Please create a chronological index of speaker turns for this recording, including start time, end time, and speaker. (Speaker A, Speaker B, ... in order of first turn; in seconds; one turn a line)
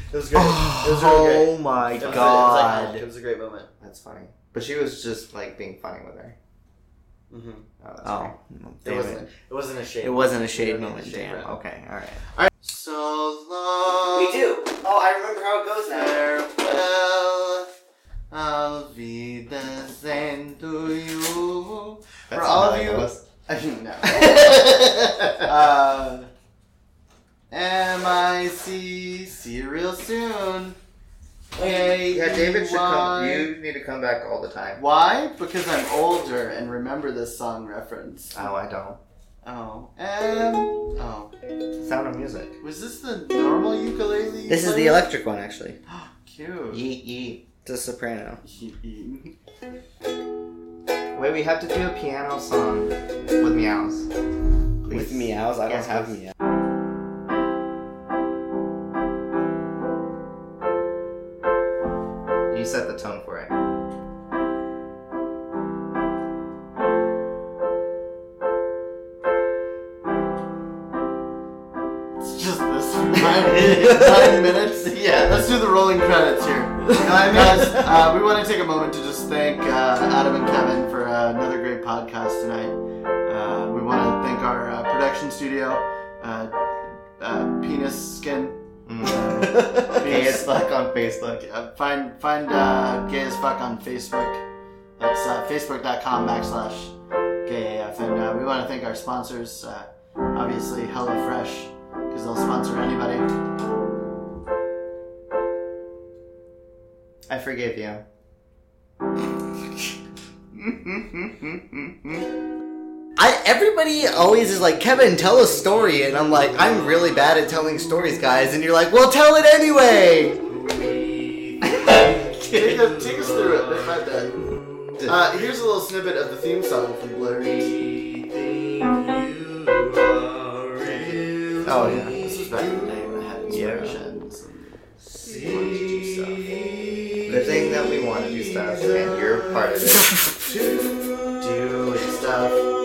Speaker A: 0.1-3.7
Speaker B: 0.3-3.0
Speaker C: 1.8-2.6
Speaker C: 3.8-6.4
Speaker A: 7.3-7.7
Speaker C: 7.8-8.4
Speaker B: 8.0-9.3
Speaker A: 8.8-11.6
Speaker B: 10.0-12.3
Speaker A: 12.5-14.5
Speaker B: 14.1-16.5
Speaker A: 16.4-17.7
Speaker A: 18.3-24.8
Speaker C: 22.3-23.2
Speaker C: 24.1-25.5
Speaker A: 25.4-26.3
Speaker A: 27.5-30.8
Speaker A: 31.6-33.5
Speaker C: 32.1-34.8
Speaker A: 34.8-38.5
Speaker C: 38.3-39.0
Speaker A: 39.4-41.3
Speaker C: 41.8-42.5
Speaker A: 42.6-45.0
Speaker B: 44.5-45.8
Speaker A: 45.9-46.9
Speaker C: 46.7-47.5
Speaker B: 47.6-48.4
Speaker A: 48.4-49.4
Speaker C: 51.1-54.1
Speaker C: 54.8-56.2
Speaker B: 54.9-56.3
Speaker C: 62.5-63.5
Speaker A: 72.2-90.5
Speaker C: 73.4-75.4
Speaker C: 77.0-78.0
Speaker C: 88.9-91.4
Speaker B: 89.5-89.9
Speaker A: 91.4-94.4
Speaker A: 95.0-96.9
Speaker A: 97.5-103.3
Speaker C: 107.3-108.0
Speaker B: 113.2-123.8
Speaker C: 121.7-122.0
Speaker A: 122.5-124.4
Speaker B: 124.4-125.0
Speaker A: 125.0-128.0
Speaker B: 128.0-134.0
Speaker A: 130.8-136.7
Speaker C: 131.7-132.2
Speaker C: 133.5-133.9
Speaker B: 135.1-137.6
Speaker C: 137.3-140.1
Speaker B: 139.9-140.9
Speaker A: 141.3-142.7